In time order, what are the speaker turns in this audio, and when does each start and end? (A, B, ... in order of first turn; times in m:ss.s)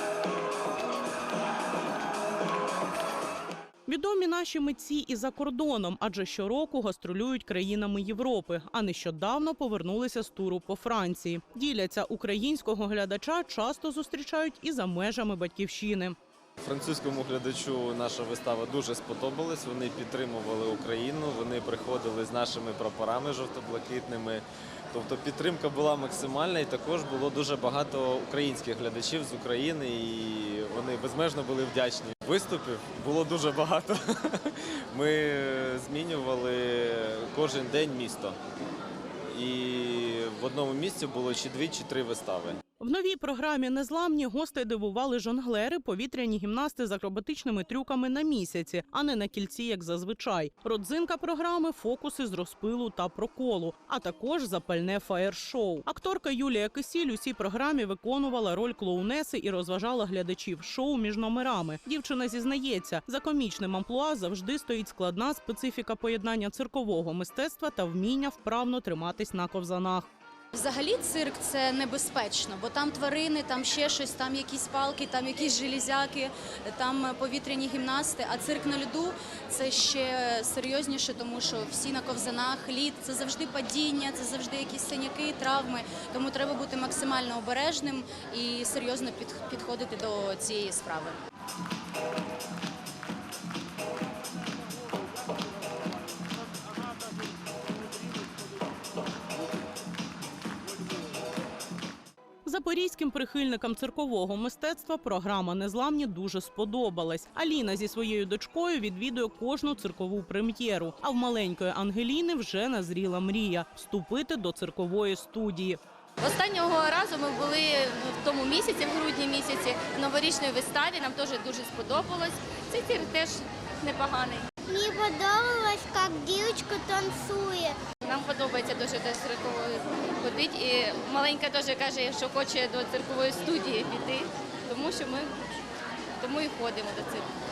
0:03.9-0:16.2 A
0:16.6-0:38.4 B
0:39.3-0:42.6 B
0:42.8-1:10.1 A
1:10.5-1:31.2 C
1:42.4-1:55.8 A
1:56.2-2:04.5 D
2:04.7-2:07.8 E
2:08.0-2:15.4 D
2:16.2-2:17.3 D